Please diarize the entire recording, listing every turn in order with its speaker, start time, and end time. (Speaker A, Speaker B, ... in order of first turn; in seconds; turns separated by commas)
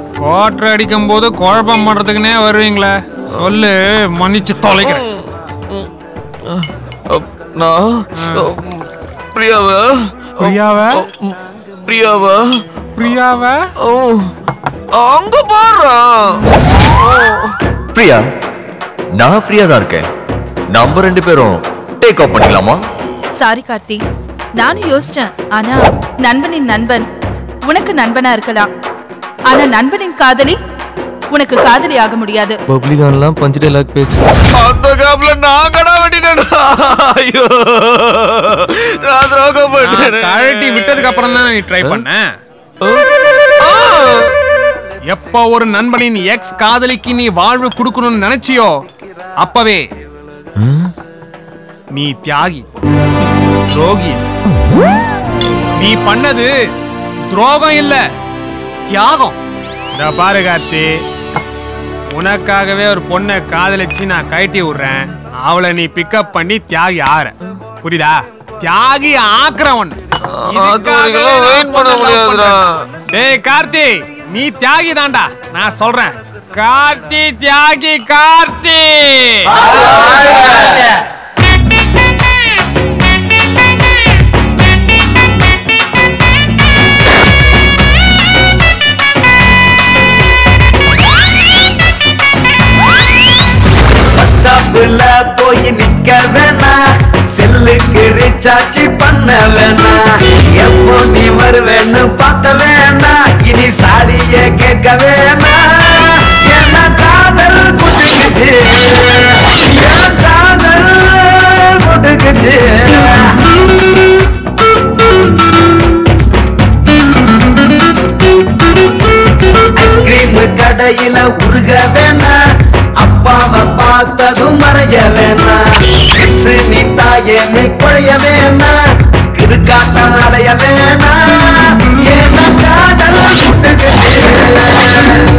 Speaker A: 0.2-5.0, Speaker B: 4.7-5.9, Speaker B: 6.5-8.7, Speaker A: 8.2-8.5, Speaker B: 9.3-12.5, Speaker A: 10.4-11.0, Speaker A: 13.0-13.6, Speaker B: 13.8-14.3, Speaker B: 14.9-16.1, Speaker B: 17.0-18.3, Speaker B: 19.2-20.1, Speaker B: 20.7-22.8, Speaker C: 23.4-24.0, Speaker C: 24.6-27.1, Speaker C: 27.6-28.7, Speaker C: 29.5-30.6, Speaker C: 31.3-32.6, Speaker B: 32.7-41.0, Speaker A: 39.8-42.3, Speaker B: 43.6-44.2, Speaker A: 45.1-48.8, Speaker A: 49.4-49.9, Speaker B: 50.6-50.9, Speaker A: 52.0-52.7, Speaker A: 53.7-54.2, Speaker A: 55.8-56.5, Speaker A: 57.3-58.0, Speaker A: 58.9-59.4, Speaker A: 60.0-61.0, Speaker A: 62.1-67.3, Speaker A: 67.8-70.0, Speaker B: 70.3-72.8, Speaker A: 70.5-72.6, Speaker A: 73.1-79.6, Speaker D: 79.7-80.6, Speaker D: 94.2-96.8, Speaker D: 97.3-113.3, Speaker D: 119.8-122.4, Speaker D: 123.0-128.8, Speaker D: 129.3-135.1